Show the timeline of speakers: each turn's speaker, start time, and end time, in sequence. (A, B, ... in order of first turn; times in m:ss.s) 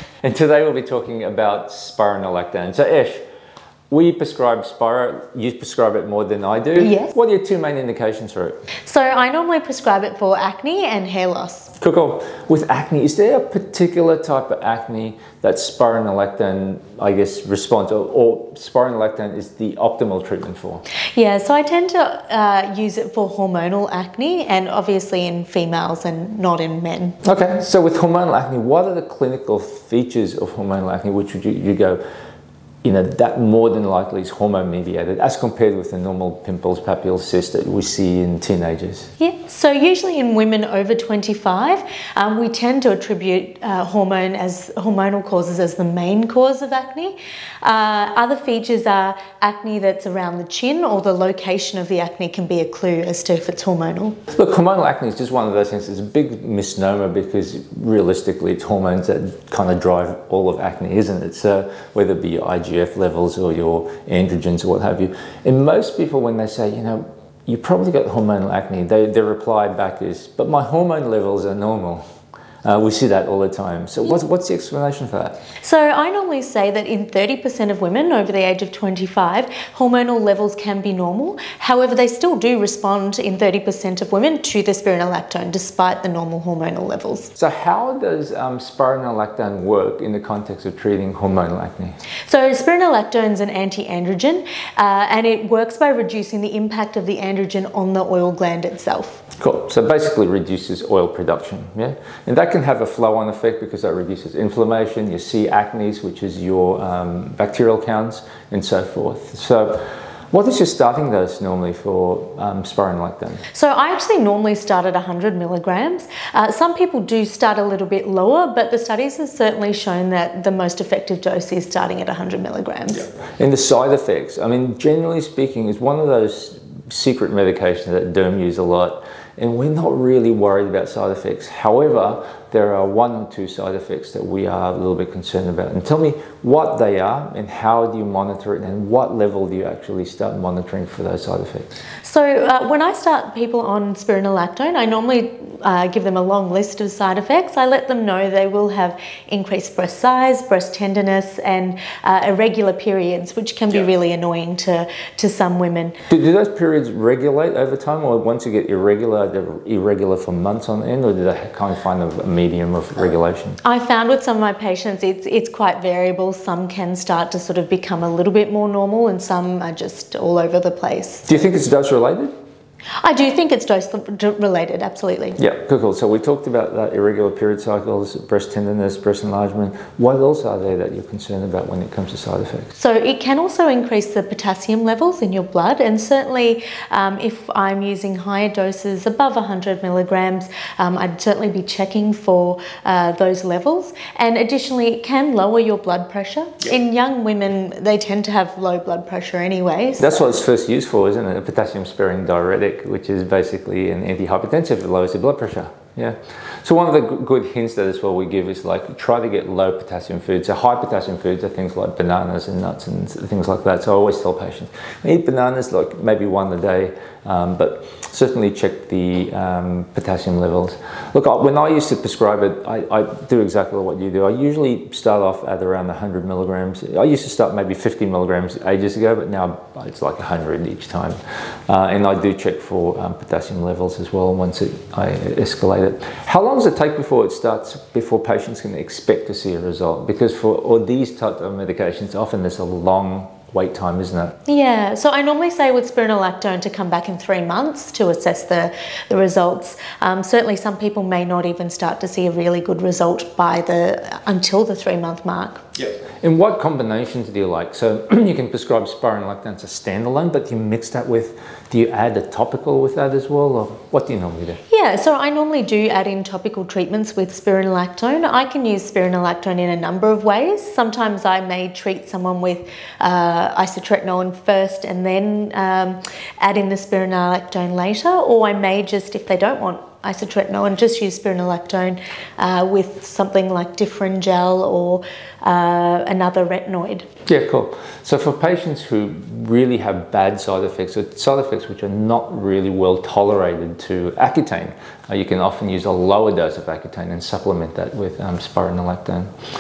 0:00.2-0:03.2 A
0:03.9-0:08.6 A
0:06.8-0:07.1 B
0:08.8-0:11.7 B
0:11.8-0:20.8 A
0:21.1-0:27.2 B
0:27.2-0:32.0 A
0:32.8-0:39.1 A
0:39.2-0:54.2 B
0:54.3-1:12.0 A
1:12.6-1:15.4 A
1:15.6-1:27.3 B
1:27.4-1:32.0 A
1:32.2-1:39.2 B
1:39.4-1:53.4 A
1:53.5-2:03.1 B
2:03.4-2:21.7 A
2:22.0-2:36.0 B
2:36.1-2:43.6 A
2:43.6-2:51.3 B
2:51.3-2:52.3 A
2:53.0-2:55.4 B
2:55.4-3:02.7 A
3:02.8-3:20.3 B
3:20.0-4:04.4 A
4:04.5-4:15.6 B
4:16.2-4:24.6 A
4:24.7-4:47.1 B
4:47.3-4:59.3 A